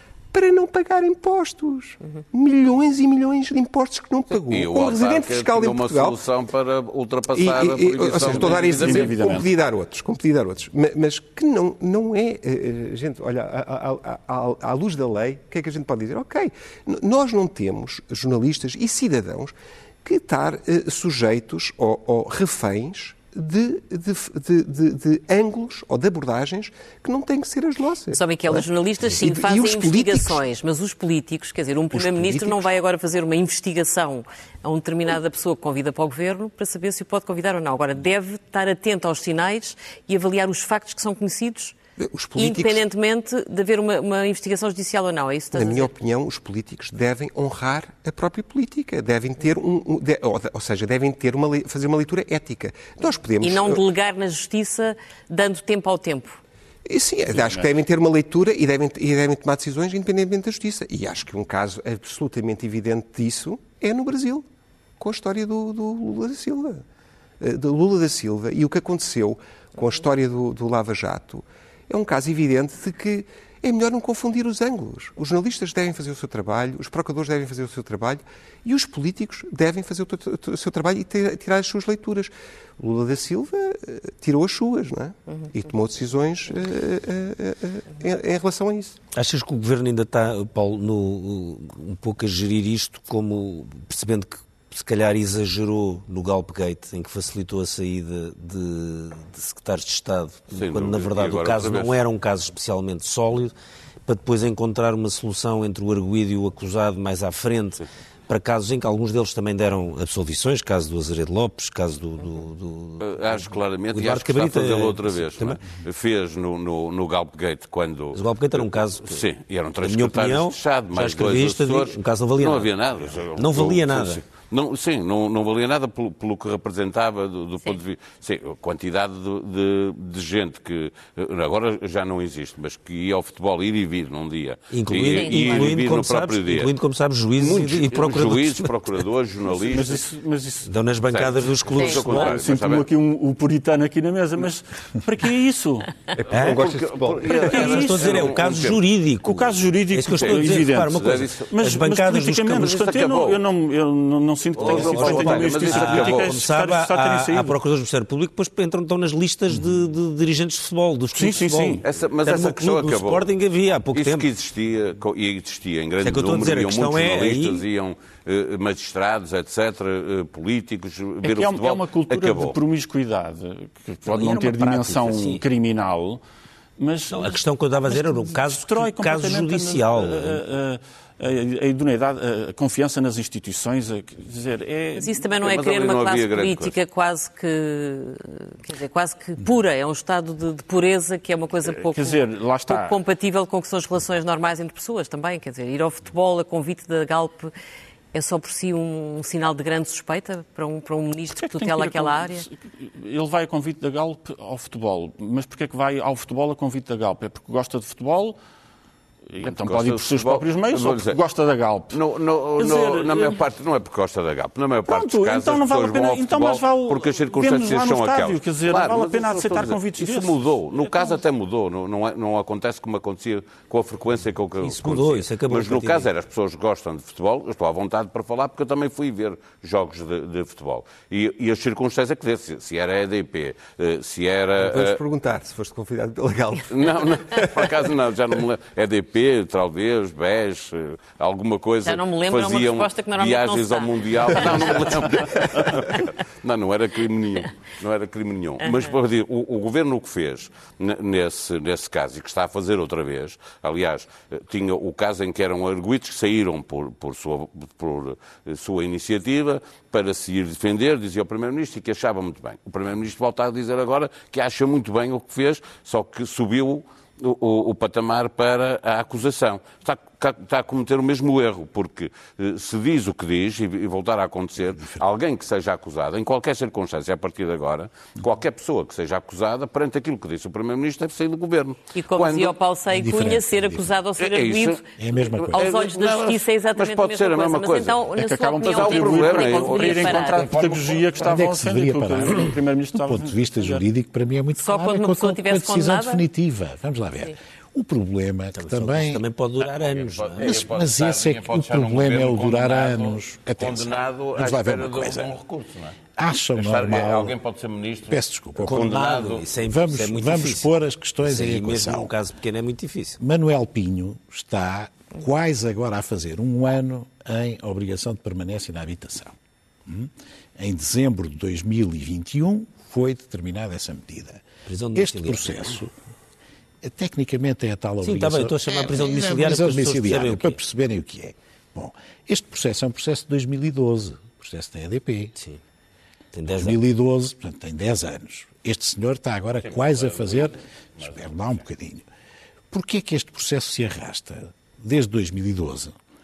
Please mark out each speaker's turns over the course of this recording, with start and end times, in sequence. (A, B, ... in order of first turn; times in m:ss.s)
0:00.3-0:06.2 A
0:04.5-0:09.2 B
0:07.3-0:30.4 A
0:08.2-0:09.5 C
0:28.1-0:41.8 D
0:31.9-0:32.7 E
0:42.0-0:42.8 A
0:42.4-0:45.9 D
0:45.5-0:53.8 A
0:53.4-0:56.4 D
0:56.8-1:04.4 A
0:57.3-0:57.7 C
1:05.0-1:06.8 A
1:07.4-1:29.0 A
1:29.1-1:43.5 F
1:40.5-1:42.0 B
1:44.1-1:55.6 F
1:53.0-2:16.7 B
1:58.1-1:59.3 F
1:59.8-2:02.7 F
2:03.3-2:04.2 F
2:14.7-2:19.0 F
2:15.2-2:15.6 D
2:17.4-2:20.0 B
2:19.5-2:20.8 C
2:20.6-2:22.4 F
2:21.1-2:22.9 B
2:22.0-2:26.0 C
2:26.1-2:27.5 A
2:26.3-2:28.8 B
2:26.3-2:26.6 F
2:27.4-2:28.4 C
2:27.5-2:32.7 F
2:29.2-2:37.6 C
2:30.1-2:31.5 B
2:32.4-2:33.4 B
2:34.6-2:36.4 B
2:34.6-2:44.3 F
2:41.1-2:41.8 C
2:41.8-2:43.3 B
2:43.9-2:52.6 B
2:46.0-2:47.7 F
2:51.2-2:56.2 C
2:54.1-2:55.4 F
2:56.8-3:05.2 C
2:57.1-3:00.4 F
3:05.0-3:17.5 D
3:05.4-3:06.8 B
3:11.6-3:13.0 C
3:18.1-3:22.5 D
3:21.3-3:28.4 C
3:29.3-3:32.0 C
3:29.4-3:31.2 B
3:31.9-3:55.0 B
3:32.6-3:33.4 C
3:34.9-3:41.2 C
3:44.6-3:46.1 F
3:54.6-3:57.9 A
3:56.7-4:42.6 B
4:01.8-4:06.0 D
4:34.8-4:35.0 E
4:41.9-4:44.8 D
4:42.9-4:43.9 E
4:44.2-4:44.8 B
4:45.0-4:45.7 E
4:45.4-4:48.1 B
4:45.4-4:50.5 D
4:48.2-4:53.8 C
4:48.6-4:51.2 B
4:51.2-4:59.2 E
4:54.6-4:56.2 D
4:58.6-5:00.6 F
4:59.6-5:06.0 B
5:00.4-5:05.3 E
5:06.2-5:07.4 E
5:06.6-5:09.5 B
5:08.1-5:09.0 E
5:08.6-5:13.2 F
5:09.6-5:12.1 E
5:13.2-5:25.9 E
5:24.7-5:25.7 F
5:26.8-5:35.4 E
5:28.0-5:30.6 F
5:36.3-5:36.8 F
5:36.5-5:42.0 E
5:39.6-5:41.6 B
5:42.7-5:46.0 E